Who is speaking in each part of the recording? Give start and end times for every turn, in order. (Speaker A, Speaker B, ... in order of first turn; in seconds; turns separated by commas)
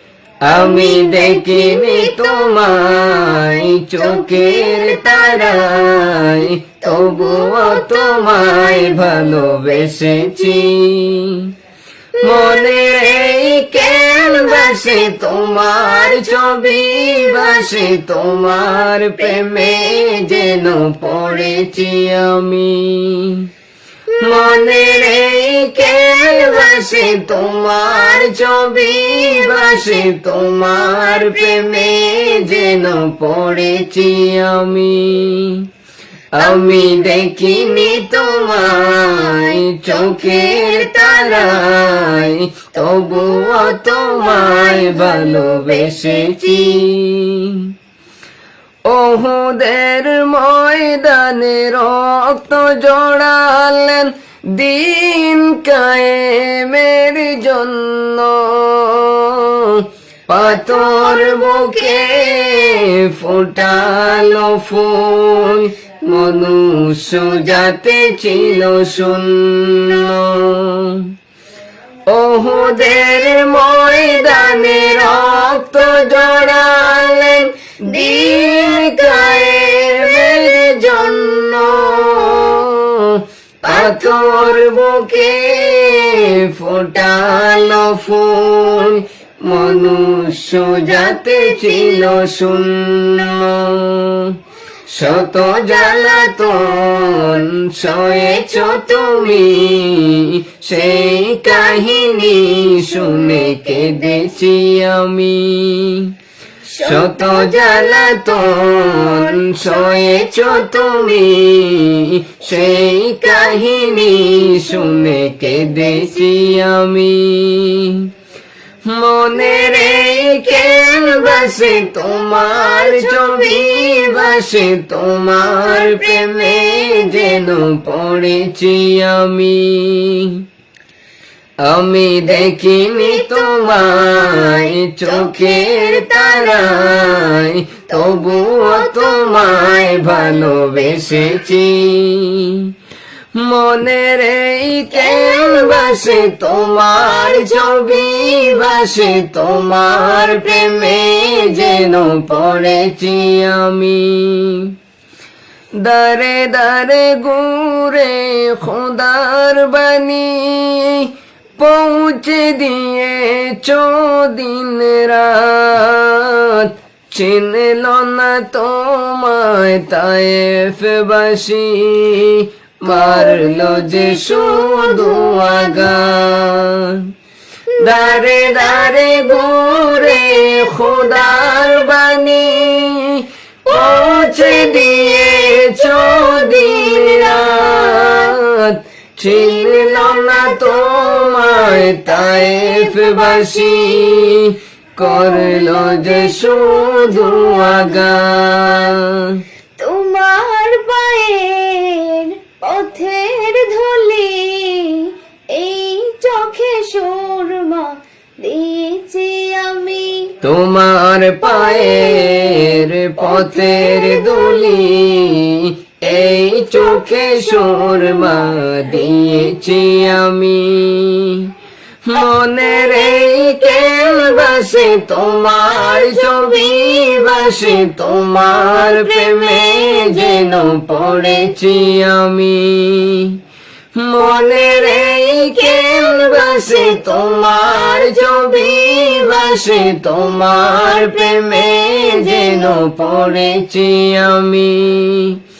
Speaker A: 0.4-11.5, Speaker B: 0.5-2.7, Speaker B: 3.3-5.7, Speaker B: 6.8-9.6, Speaker B: 12.2-12.8, Speaker A: 12.2-23.5, Speaker B: 13.9-15.0, Speaker A: 24.2-35.7, Speaker B: 24.2-24.9, Speaker B: 25.9-27.3, Speaker B: 29.4-29.8, Speaker A: 36.4-47.7, Speaker B: 36.6-38.2, Speaker B: 39.9-41.7, Speaker B: 43.0-46.3, Speaker A: 48.9-71.1, Speaker B: 60.5-62.1, Speaker A: 72.1-94.3, Speaker B: 77.9-80.5, Speaker B: 83.7-84.0, Speaker A: 94.9-106.1, Speaker B: 101.0-102.0, Speaker B: 102.6-104.0, Speaker B: 106.7-110.2, Speaker A: 106.8-118.1, Speaker A: 118.8-130.4, Speaker B: 119.5-120.2, Speaker B: 120.8-124.2, Speaker B: 125.6-127.1, Speaker A: 131.6-142.7, Speaker B: 133.0-133.6, Speaker B: 134.2-136.9, Speaker B: 137.9-140.8, Speaker A: 143.3-154.7, Speaker B: 145.0-145.8, Speaker A: 155.8-177.1, Speaker B: 172.9-175.4, Speaker A: 177.8-199.4, Speaker B: 177.8-178.1, Speaker B: 183.8-185.1, Speaker B: 186.0-188.1, Speaker B: 189.3-190.9, Speaker B: 192.3-193.8, Speaker B: 195.0-196.6, Speaker B: 199.8-210.3, Speaker A: 210.4-221.5, Speaker B: 211.6-212.5, Speaker B: 213.2-214.6, Speaker A: 222.0-233.4, Speaker A: 233.9-245.4, Speaker B: 235.8-236.5